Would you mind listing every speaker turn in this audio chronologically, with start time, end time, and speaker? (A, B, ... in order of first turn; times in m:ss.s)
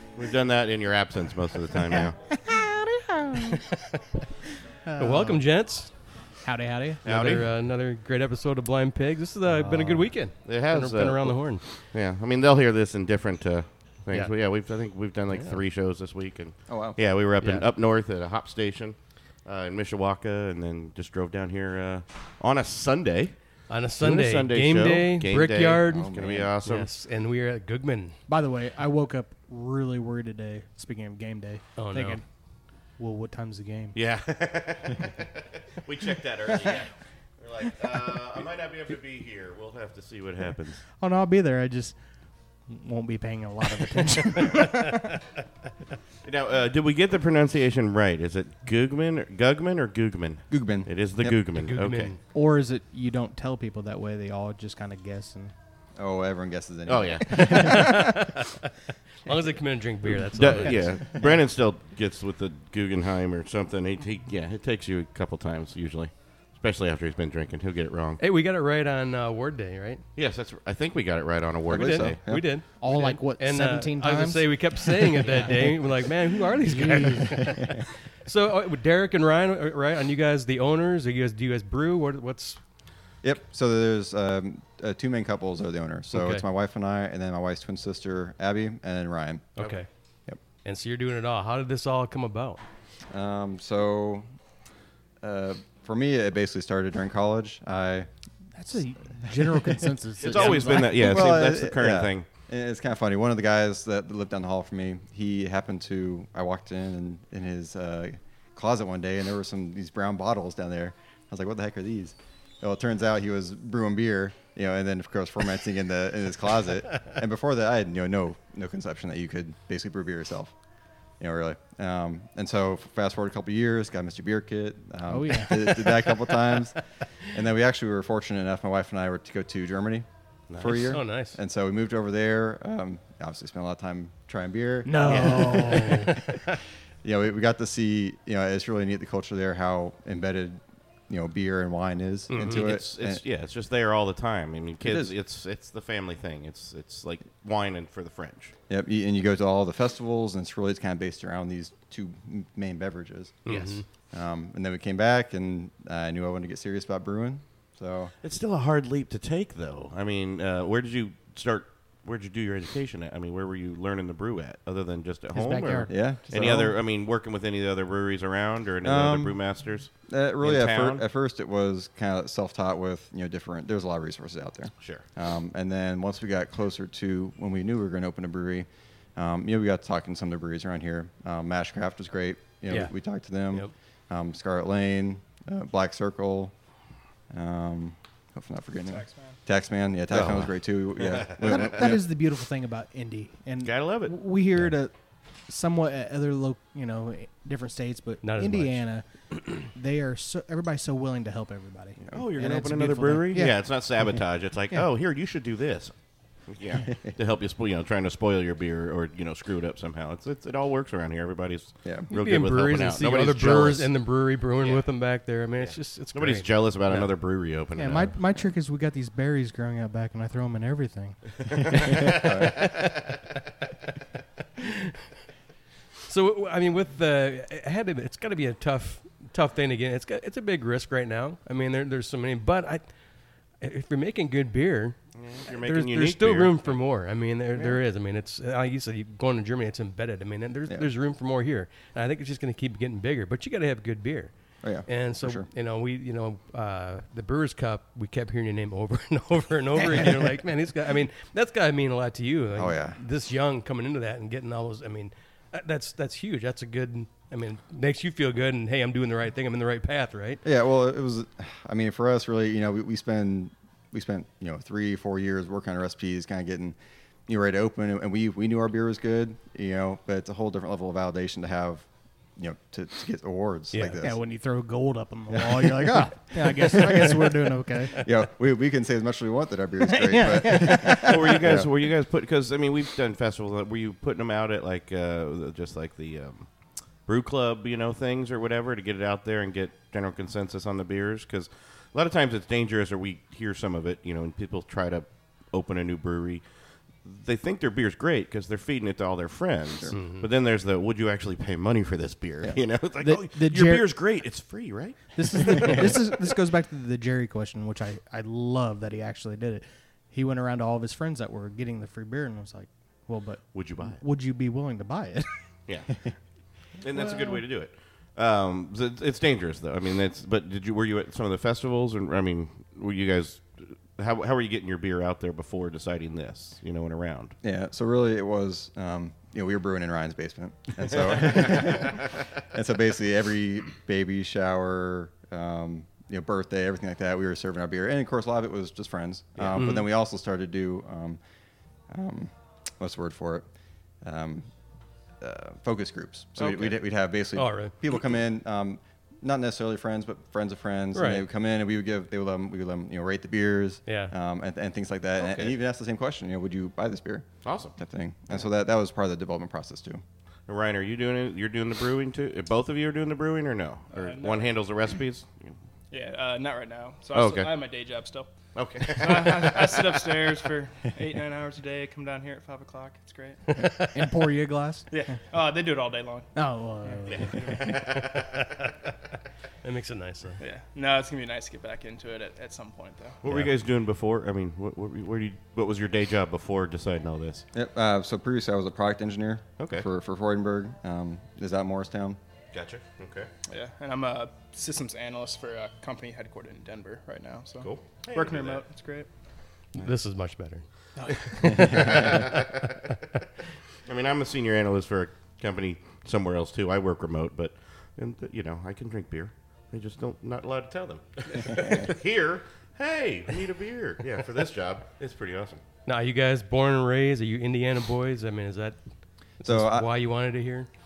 0:00.2-0:02.1 A
0:01.9-0:03.6 B
0:03.6-0:04.0 C
0:04.8-0:05.4 B
0:05.0-0:05.9 C
0:06.4-0:07.0 B
0:07.0-0:07.4 A
0:07.0-0:11.6 C
0:09.7-0:23.3 A
0:16.7-0:17.0 D
0:17.4-0:17.6 C
0:23.7-0:26.1 C
0:24.0-0:26.9 A
0:25.9-0:26.5 D
0:26.6-0:28.2 C
0:28.3-0:32.2 B
0:31.8-0:32.2 C
0:33.0-0:34.0 B
0:33.9-0:36.9 A
0:37.4-0:40.8 A
0:41.0-0:41.9 B
0:42.7-0:45.2 B
0:46.2-0:52.1 A
0:50.5-0:51.4 D
0:51.6-0:52.2 C
0:52.3-0:55.5 B
0:56.0-0:58.2 D
0:56.9-0:57.8 A
0:57.5-0:58.5 C
0:59.2-1:01.0 C
1:00.4-1:08.2 A
1:08.2-1:10.0 C
1:10.2-1:12.2 A
1:11.7-1:12.5 D
1:11.7-1:17.7 C
1:12.8-1:15.7 B
1:16.7-1:17.4 B
1:18.2-1:22.6 C
1:23.2-1:29.5 D
1:26.1-1:26.4 C
1:29.6-1:29.9 C
1:30.6-1:32.6 C
1:33.1-1:34.3 D
1:35.2-1:38.1 D
1:38.6-1:41.3 B
1:39.2-2:00.5 D
1:40.2-1:42.2 A
2:01.2-2:10.1 D
2:05.1-2:05.8 B
2:10.5-2:10.8 A
2:10.6-2:16.4 D
2:10.6-2:11.4 C
2:14.8-2:16.1 B
2:15.8-2:16.1 C
2:17.0-2:23.2 D
2:22.3-2:22.7 C
2:22.5-2:28.5 A
2:24.8-2:25.1 D
2:28.7-2:38.1 D
2:33.4-2:33.8 C
2:38.2-2:51.0 A
2:45.3-2:46.0 B
2:45.9-2:46.7 D
2:48.8-2:49.4 D
2:50.1-3:06.5 D
3:07.3-3:12.0 D
3:08.9-3:09.4 E
3:10.1-3:11.4 A
3:11.4-3:14.9 B
3:13.6-3:14.1 A
3:15.5-3:23.6 B
3:18.2-3:18.8 C
3:22.1-3:25.9 A
3:26.5-3:33.9 A
3:32.1-3:37.1 C
3:35.7-3:38.1 A
3:37.8-3:41.2 B
3:41.8-3:42.6 D
3:44.6-3:44.9 C
3:46.1-3:52.8 C
3:53.6-3:55.0 C
3:55.1-3:56.7 A
3:55.6-4:04.3 C
4:04.6-4:05.5 D
4:04.8-4:20.4 C
4:12.6-4:13.0 D
4:20.4-4:26.8 D
4:27.3-4:34.2 D
4:34.0-4:38.0 B
4:35.3-4:41.7 D
4:39.8-4:41.2 B
4:40.6-4:46.5 A
4:47.0-4:56.4 A
4:57.0-5:06.2 A
4:59.9-5:00.2 C
5:03.0-5:03.9 B
5:05.2-5:15.3 B
5:13.5-5:14.0 A
5:16.8-5:27.3 A
5:17.0-5:17.4 B
5:27.4-5:41.2 D
5:31.0-5:32.1 A
5:39.6-5:39.9 C
5:41.9-5:43.4 D
5:44.0-5:44.5 D
5:45.2-6:00.0 D
5:47.3-5:47.7 C
5:50.9-5:51.2 C
5:53.8-5:54.1 C
5:55.2-5:55.5 A
5:57.4-5:57.7 A
6:00.5-6:05.5 A
6:03.9-6:04.6 E
6:05.9-6:08.3 E
6:07.1-6:07.6 A
6:08.5-6:10.3 A
6:08.9-6:13.4 E
6:13.6-6:14.9 B
6:14.9-6:16.3 E
6:16.3-6:18.0 B
6:17.1-6:18.3 A
6:18.4-6:18.7 C
6:19.6-6:20.4 C
6:20.4-6:23.2 E
6:23.2-6:27.4 A
6:27.5-6:32.2 D
6:29.6-6:29.8 A
6:32.5-6:33.3 A
6:33.5-6:39.1 E
6:37.6-6:38.6 A
6:39.7-6:40.6 C
6:41.0-6:41.6 B
6:41.2-6:42.4 C
6:41.5-6:42.1 D
6:41.6-6:42.8 A
6:43.9-6:55.6 A
6:55.8-6:58.8 C
6:59.4-6:59.9 D
6:59.4-7:00.7 C